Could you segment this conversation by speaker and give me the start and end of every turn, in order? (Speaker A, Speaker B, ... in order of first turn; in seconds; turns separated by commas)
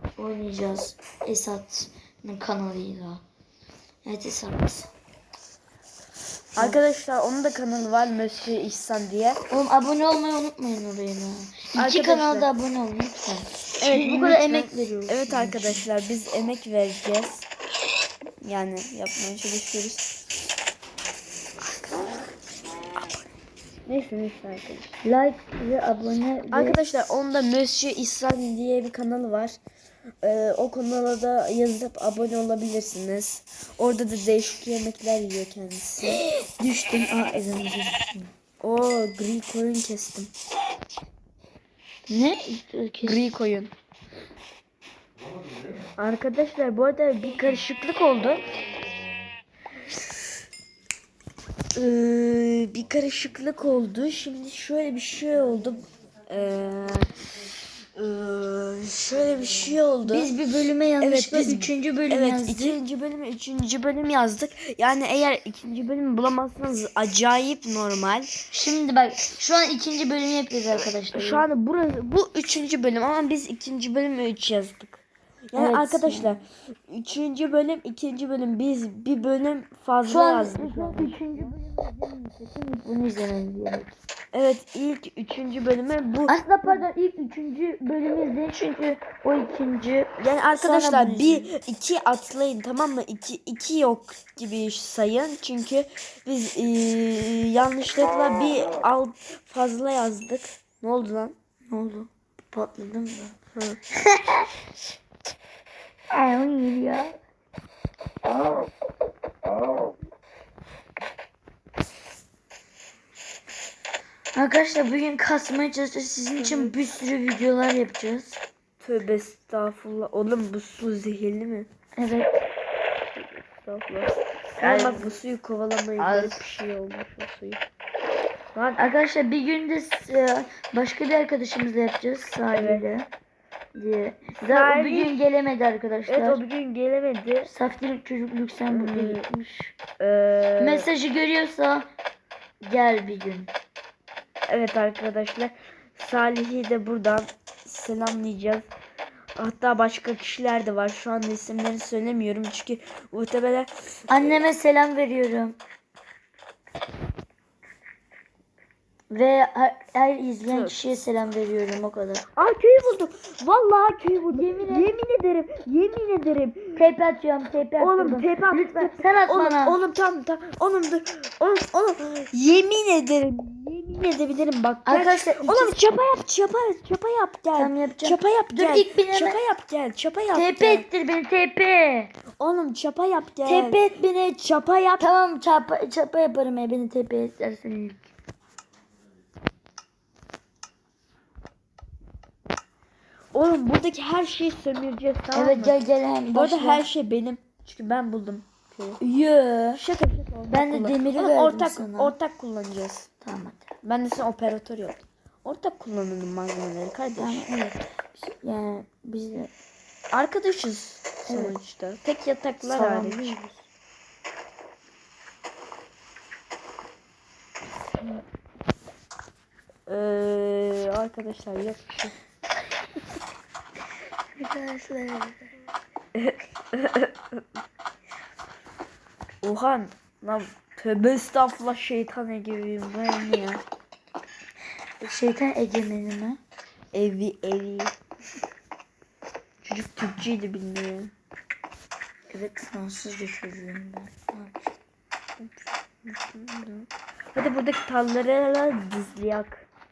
Speaker A: 0.2-3.2, Speaker A: 4.0-4.9, Speaker B: 6.6-9.4, Speaker A: 9.5-15.8, Speaker B: 11.8-12.5, Speaker B: 13.8-17.5, Speaker B: 18.4-20.1, Speaker B: 23.9-25.0, Speaker A: 25.0-26.8, Speaker B: 26.5-29.6, Speaker B: 30.2-36.2, Speaker A: 36.2-38.3, Speaker B: 38.6-40.3, Speaker A: 42.1-43.3, Speaker B: 43.0-43.7, Speaker B: 46.0-48.5, Speaker B: 51.8-57.1, Speaker B: 58.0-60.3, Speaker A: 60.1-62.8, Speaker B: 61.0-68.3, Speaker A: 68.5-71.4, Speaker B: 71.1-81.5, Speaker A: 75.5-76.4, Speaker A: 80.1-83.9, Speaker B: 84.3-86.9, Speaker A: 86.3-91.5, Speaker B: 90.2-101.3, Speaker A: 101.7-103.3, Speaker B: 103.5-103.8, Speaker A: 104.0-104.5, Speaker A: 106.1-107.2, Speaker A: 114.3-118.4, Speaker B: 116.4-116.8, Speaker B: 118.8-121.7, Speaker A: 122.0-122.5, Speaker B: 123.1-127.6, Speaker A: 124.6-125.1, Speaker A: 126.0-126.4, Speaker B: 128.6-128.9, Speaker A: 128.8-133.1, Speaker B: 132.5-132.8, Speaker A: 133.8-136.4, Speaker B: 134.4-135.2, Speaker B: 136.1-137.5, Speaker A: 137.4-139.8, Speaker B: 138.7-139.2, Speaker B: 140.0-140.9, Speaker A: 140.6-141.9, Speaker A: 142.6-143.5, Speaker B: 144.5-148.7, Speaker B: 149.4-154.4, Speaker A: 154.1-155.6, Speaker A: 159.1-162.3, Speaker B: 160.5-160.8, Speaker B: 162.4-166.8, Speaker A: 164.3-164.9, Speaker A: 166.8-169.8, Speaker B: 167.8-180.8, Speaker A: 174.8-176.0, Speaker A: 177.6-179.4, Speaker A: 180.3-182.1, Speaker B: 182.4-183.8, Speaker A: 183.5-188.1, Speaker B: 184.6-185.1, Speaker B: 193.3-195.8, Speaker A: 195.3-196.9, Speaker B: 196.3-199.0, Speaker A: 199.0-199.8, Speaker B: 199.8-203.1, Speaker A: 200.5-202.2, Speaker A: 203.2-203.7, Speaker B: 203.8-207.5, Speaker A: 207.2-209.5, Speaker B: 210.1-213.4, Speaker A: 211.3-211.6, Speaker A: 212.6-213.7, Speaker B: 219.9-222.2, Speaker A: 224.4-225.4, Speaker B: 226.2-227.1, Speaker B: 229.4-233.6, Speaker A: 235.0-236.4, Speaker B: 236.9-237.9, Speaker B: 239.6-241.1, Speaker A: 242.3-244.7, Speaker B: 245.4-249.7